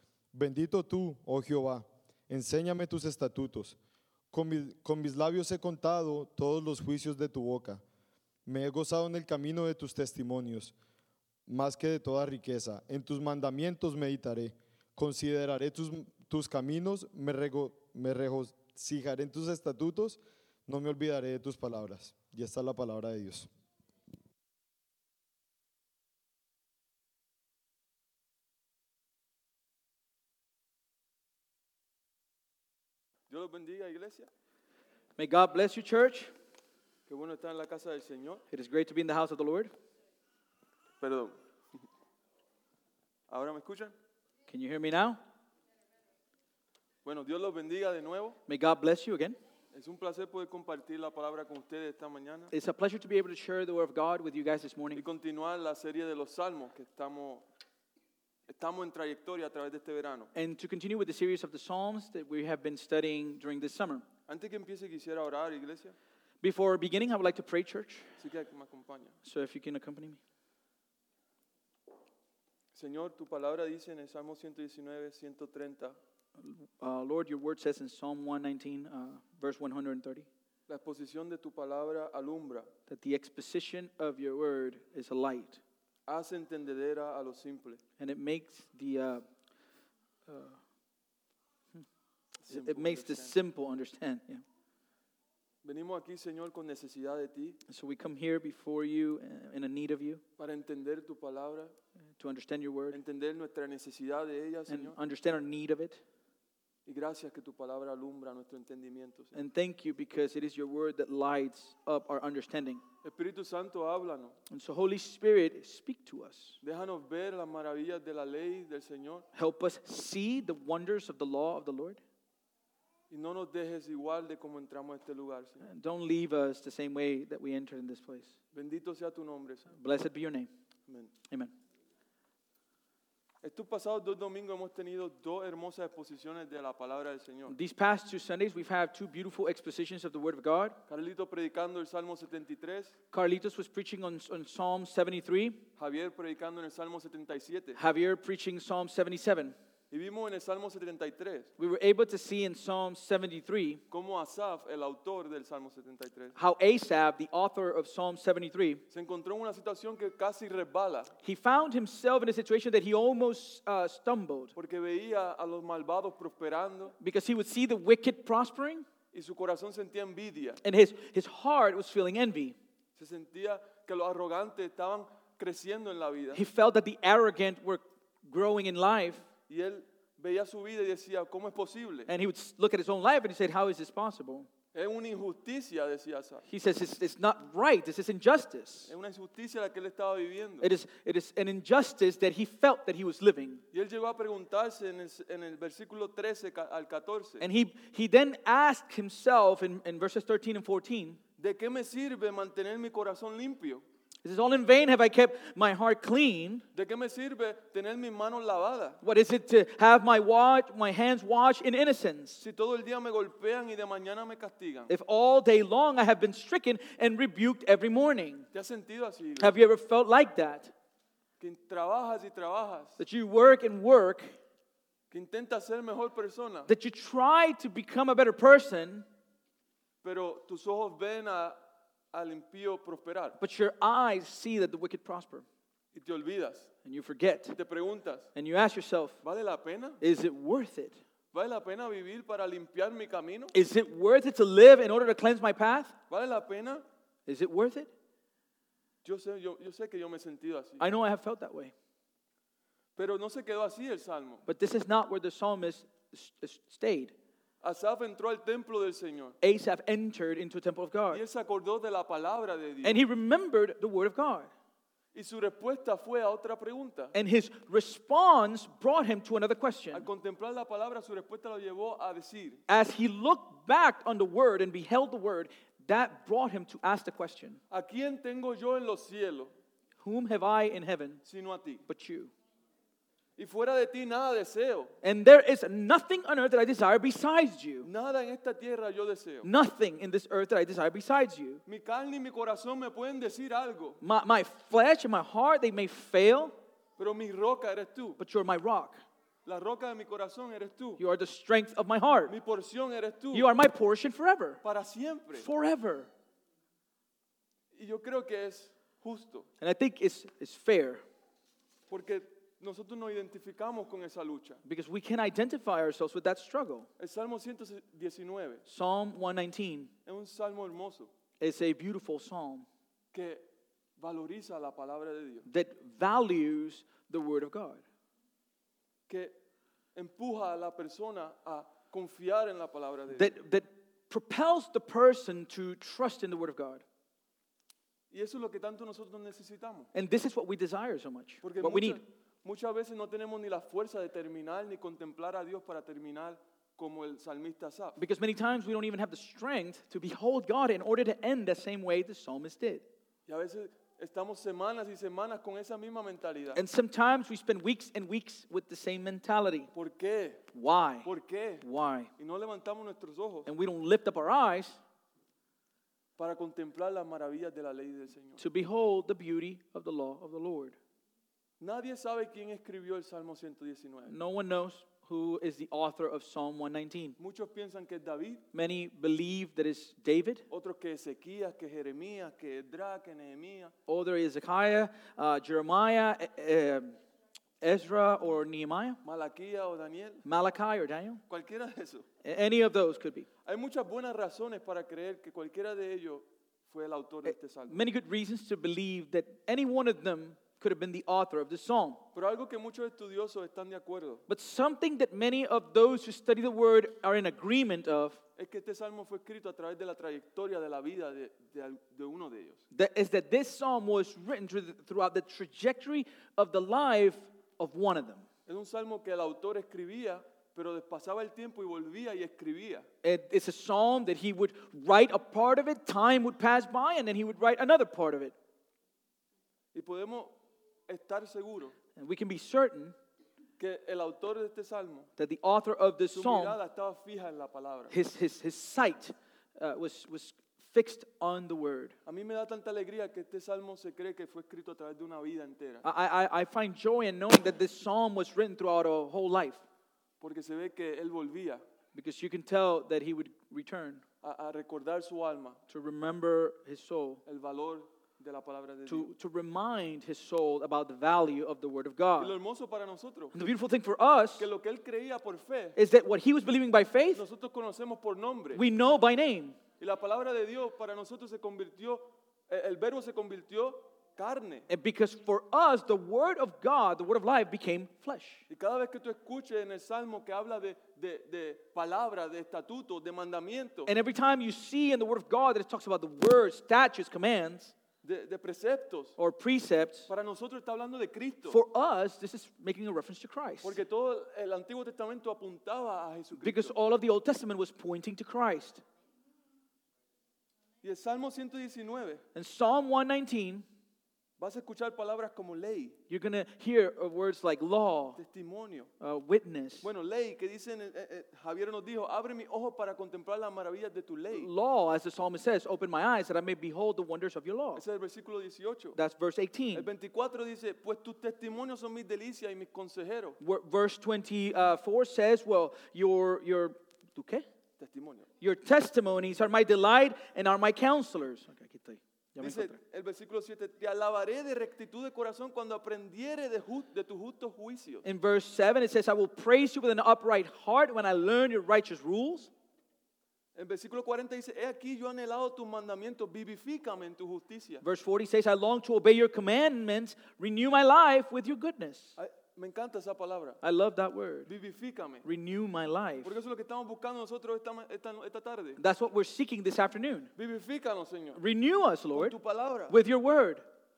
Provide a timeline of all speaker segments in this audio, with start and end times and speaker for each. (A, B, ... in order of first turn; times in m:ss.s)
0:00.3-0:03.8 A
0:04.3-0:07.8 A
0:08.4-0:10.7 A
0:11.5-0:23.5 A
0:33.3-0:34.3 B
0:35.2-0:36.3 C
0:37.1-0:38.4 B
0:38.5-0:39.7 C
0:41.0-0:41.4 B
0:43.3-0:43.9 B
0:44.5-0:45.2 C
0:47.0-0:48.4 B
0:48.5-0:49.4 C
0:49.7-0:52.5 B
0:52.5-0:55.0 C
0:54.9-0:57.4 B
0:58.5-1:00.3 B
1:00.3-1:04.0 C
1:04.3-1:05.9 B
1:06.4-1:08.1 C
1:08.2-1:09.2 B
1:09.2-1:10.2 C
1:12.7-1:16.0 B
1:16.4-1:20.3 C
1:20.7-1:22.7 B
1:22.9-1:25.6 C
1:26.1-1:27.8 B
1:28.0-1:29.2 C
1:30.3-1:30.6 C
1:32.4-1:33.4 B
1:32.5-1:34.4 C
1:35.6-1:37.6 B
1:37.7-1:40.2 C
1:40.4-1:41.7 B
1:42.2-1:43.0 C
1:42.9-1:45.0 B
1:44.7-1:46.0 C
1:46.8-1:49.3 B
1:49.3-1:52.8 C
1:53.0-1:54.4 B
1:54.5-1:56.6 C
1:56.6-1:59.3 B
1:59.3-2:02.0 C
2:03.1-2:05.6 B
2:05.6-2:08.3 C
2:08.5-2:09.7 B
2:09.7-2:10.5 C
2:10.9-2:11.1 B
2:13.4-2:17.5 B
2:17.5-2:20.8 C
2:20.9-2:23.0 B
2:23.1-2:25.6 C
2:25.8-2:27.8 B
2:27.7-2:29.6 C
2:29.9-2:31.5 B
2:31.6-2:33.8 C
2:33.9-2:36.3 B
2:36.3-2:38.8 C
2:38.9-2:41.1 B
2:41.2-2:44.5 C
2:44.5-2:46.9 B
2:47.0-2:48.8 C
2:49.1-2:50.6 B
2:50.6-2:52.5 C
2:53.0-2:56.4 B
2:56.3-2:59.2 C
2:59.5-3:02.1 B
3:02.1-3:04.5 C
3:04.7-3:06.4 B
3:06.5-3:08.9 C
3:08.9-3:10.7 B
3:10.6-3:13.6 C
3:13.7-3:17.4 B
3:17.4-3:21.2 C
3:21.4-3:23.8 B
3:24.2-3:26.6 C
3:26.7-3:29.0 B
3:29.0-3:32.4 C
3:32.4-3:34.9 B
3:34.9-3:38.5 C
3:38.5-3:39.5 B
3:39.4-3:40.7 C
3:41.4-3:43.0 B
3:43.0-3:44.4 C
3:45.1-3:46.7 B
3:46.7-3:49.0 C
3:50.0-3:51.6 B
3:52.1-3:53.4 B
3:53.4-3:55.4 C
3:55.9-3:56.7 B
3:56.8-3:57.6 C
3:57.6-3:58.3 B
3:58.3-3:59.2 C
3:59.2-4:00.0 B
4:00.0-4:01.0 C
4:01.3-4:03.5 B
4:03.5-4:05.9 C
4:06.1-4:06.8 B
4:07.3-4:07.9 C
4:09.0-4:10.8 B
4:10.8-4:11.7 C
4:13.0-4:14.4 B
4:14.5-4:17.1 C
4:17.6-4:19.4 B
4:19.4-4:21.2 C
4:21.1-4:23.0 B
4:22.8-4:24.5 C
4:25.1-4:27.1 B
4:27.1-4:30.1 C
4:29.9-4:32.6 B
4:32.7-4:37.6 C
4:37.7-4:39.5 B
4:40.0-4:41.2 C
4:41.2-4:41.8 B
4:41.9-4:42.3 C
4:43.4-4:44.9 B
4:45.0-4:47.9 C
4:47.8-4:49.5 B
4:49.4-4:51.6 C
4:51.6-4:54.0 B
4:54.0-4:56.5 C
4:57.0-4:58.2 B
4:58.2-4:59.0 C
4:59.4-5:01.0 B
5:01.0-5:02.3 C
5:02.3-5:03.5 B
5:03.3-5:04.6 C
5:04.6-5:05.5 B
5:05.4-5:06.1 C
5:07.7-5:09.5 B
5:09.6-5:11.0 C
5:11.9-5:14.6 B
5:14.6-5:16.9 C
5:17.0-5:18.6 B
5:18.6-5:19.9 C
5:20.0-5:21.1 B
5:21.4-5:22.6 C
5:23.1-5:23.4 B
5:24.0-5:25.4 B
5:25.4-5:27.8 C
5:29.9-5:33.3 B
5:33.1-5:36.8 C
5:38.1-5:39.9 B
5:39.9-5:42.0 C
5:41.4-5:48.0 B
5:48.0-5:52.8 C
5:53.3-5:56.6 B
5:56.5-5:59.7 C
5:59.7-6:00.4 B
6:00.5-6:01.1 C
6:01.0-6:01.6 B
6:01.6-6:02.1 C
6:02.2-6:03.5 B
6:03.4-6:04.8 C
6:06.2-6:08.4 B
6:08.4-6:10.8 C
6:11.6-6:14.2 B
6:14.1-6:17.2 C
6:17.2-6:18.4 B
6:18.5-6:20.4 C
6:20.5-6:23.7 B
6:23.9-6:27.0 C
6:27.6-6:29.0 C
6:29.0-6:30.2 B
6:30.2-6:31.2 C
6:31.3-6:32.0 B
6:32.2-6:33.3 C
6:33.4-6:37.8 B
6:37.2-6:42.0 C
6:42.1-6:44.2 B
6:44.3-6:48.2 C
6:48.4-6:52.6 B
6:52.7-6:58.2 C
6:58.5-7:02.9 B
7:03.0-7:08.3 C
7:09.7-7:10.3 B
7:10.9-7:11.7 B
7:12.0-7:12.9 C
7:13.6-7:15.1 B
7:15.2-7:16.6 C
7:16.1-7:17.9 B
7:17.9-7:21.9 C
7:22.0-7:25.8 B
7:25.8-7:29.6 C
7:30.2-7:31.6 B
7:31.9-7:34.0 C
7:34.2-7:35.6 B
7:35.7-7:37.2 C
7:37.2-7:39.1 B
7:38.9-7:42.4 C
7:42.2-7:43.4 B
7:43.3-7:44.5 C
7:44.4-7:45.8 B
7:45.8-7:47.2 C
7:47.1-7:48.6 B
7:48.5-7:49.6 C
7:49.8-7:54.7 B
7:54.7-7:58.4 C
7:58.5-8:03.9 B
8:03.8-8:07.7 C
8:08.0-8:09.2 B
8:09.2-8:10.1 C
8:10.1-8:11.6 B
8:11.5-8:13.8 C
8:13.6-8:16.7 B
8:16.4-8:18.8 C
8:20.8-8:22.2 B
8:22.3-8:23.6 C
8:24.4-8:26.0 B
8:26.1-8:28.2 C
8:28.2-8:28.9 B
8:29.0-8:29.9 C
8:29.8-8:34.5 B
8:34.3-8:37.8 C
8:37.7-8:39.0 B
8:38.9-8:39.9 C
8:39.7-8:43.4 B
8:43.4-8:47.4 C
8:47.8-8:48.3 B
8:48.4-8:52.8 C
8:52.4-8:58.0 B
8:58.0-9:02.5 C
9:03.5-9:07.8 B
9:07.8-9:12.2 C
9:12.2-9:13.6 B
9:13.6-9:14.5 C
9:14.5-9:15.2 B
9:15.2-9:16.3 C
9:16.2-9:18.8 B
9:18.8-9:20.3 C
9:20.4-9:21.4 B
9:21.3-9:22.4 C
9:22.1-9:23.0 B
9:22.9-9:23.6 C